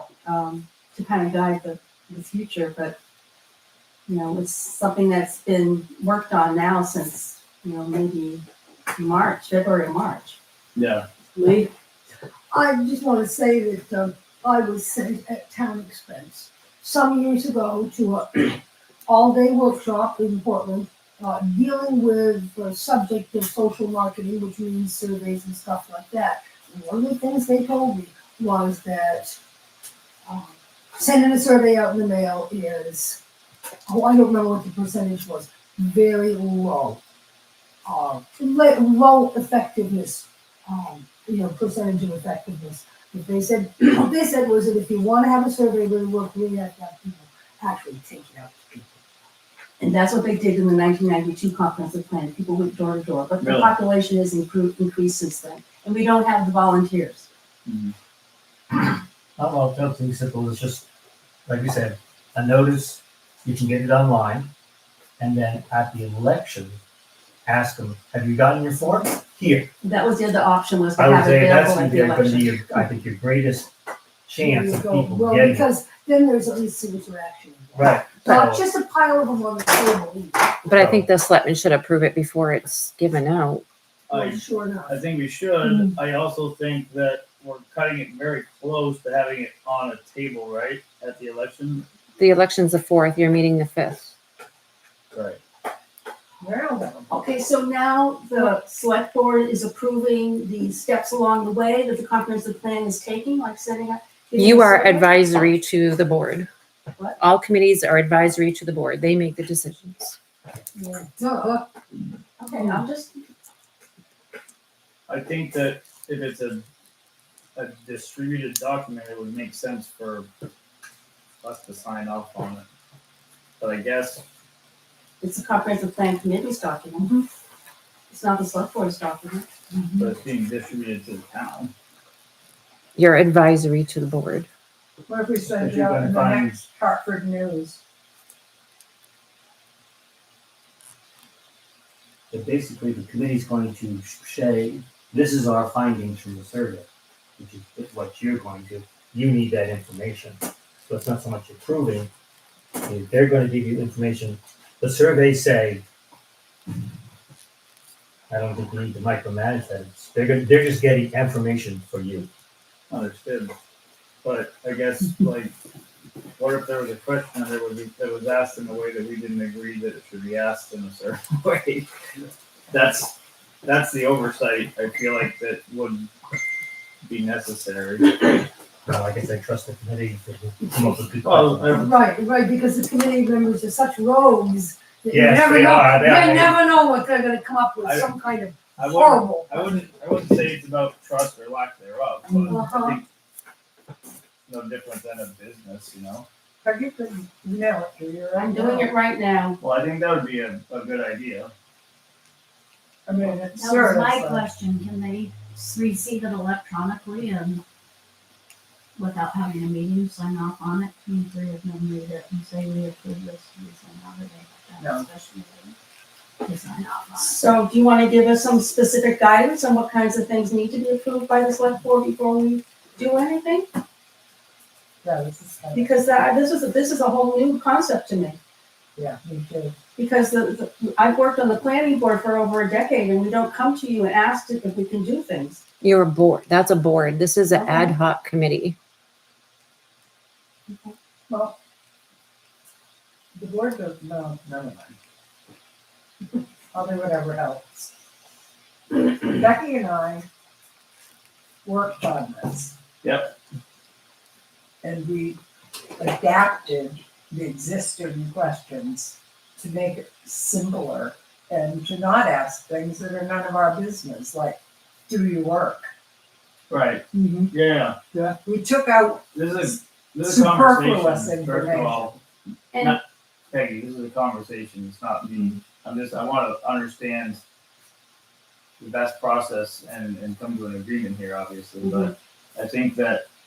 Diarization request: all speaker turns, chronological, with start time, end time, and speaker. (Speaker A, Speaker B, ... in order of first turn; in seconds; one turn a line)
Speaker A: 0.2-3.0
Speaker A: 4.1-10.4
Speaker B: 10.8-11.1
Speaker A: 11.4-11.7
Speaker C: 12.5-29.4
Speaker C: 30.3-33.2
Speaker C: 33.9-37.0
Speaker C: 37.9-48.9
Speaker A: 49.8-57.3
Speaker B: 53.4-53.8
Speaker B: 57.7-58.0
Speaker D: 59.4-60.9
Speaker D: 61.5-64.5
Speaker D: 65.2-66.8
Speaker D: 67.5-69.7
Speaker A: 69.8-72.5
Speaker D: 71.0-73.7
Speaker D: 74.3-75.7
Speaker C: 74.4-80.6
Speaker D: 77.7-78.6
Speaker E: 80.7-83.6
Speaker D: 80.7-81.0
Speaker C: 84.1-85.0
Speaker B: 84.1-91.9
Speaker C: 85.6-85.9
Speaker E: 92.2-94.1
Speaker B: 95.1-95.4
Speaker C: 96.4-97.1
Speaker A: 97.1-105.4
Speaker E: 104.4-106.5
Speaker E: 107.2-110.2
Speaker C: 110.8-111.7
Speaker A: 112.4-113.2
Speaker B: 115.1-116.6
Speaker B: 117.5-120.3
Speaker B: 121.4-122.7
Speaker B: 123.6-124.2
Speaker A: 125.2-127.1
Speaker A: 128.1-129.5
Speaker C: 129.7-130.1
Speaker B: 130.0-131.7
Speaker E: 133.0-134.5
Speaker F: 135.1-137.8
Speaker B: 135.4-136.6
Speaker D: 142.3-152.1
Speaker D: 152.8-155.8
Speaker D: 158.3-162.3
Speaker B: 162.9-163.5
Speaker B: 164.2-165.5
Speaker B: 166.4-171.9
Speaker B: 172.7-176.1
Speaker B: 177.0-178.2
Speaker D: 178.9-181.9
Speaker B: 181.2-181.9
Speaker C: 181.8-189.9
Speaker D: 185.1-186.6
Speaker B: 187.8-188.2
Speaker B: 188.8-193.1
Speaker C: 192.4-193.0
Speaker B: 194.5-196.3
Speaker F: 196.6-198.9
Speaker C: 196.8-197.8
Speaker A: 198.4-199.6
Speaker B: 199.6-201.5
Speaker F: 203.1-204.5
Speaker G: 203.6-207.6
Speaker G: 209.0-215.8
Speaker F: 214.8-215.1
Speaker G: 216.5-217.3
Speaker A: 217.1-223.7
Speaker C: 225.0-225.4
Speaker F: 225.0-225.9
Speaker A: 225.7-228.4
Speaker F: 229.0-229.7
Speaker C: 229.2-229.6
Speaker A: 230.0-235.6
Speaker E: 235.8-238.8
Speaker A: 237.5-237.9
Speaker A: 240.7-240.9
Speaker F: 241.3-241.6
Speaker F: 243.4-244.9
Speaker F: 246.7-247.9
Speaker F: 248.9-250.3
Speaker F: 251.6-252.8
Speaker B: 253.0-253.3
Speaker F: 254.8-255.4
Speaker F: 256.0-265.9
Speaker B: 266.7-268.0
Speaker C: 267.1-267.5
Speaker C: 268.1-268.5
Speaker F: 268.4-272.0
Speaker B: 269.3-272.2
Speaker B: 273.5-277.4
Speaker B: 278.8-283.2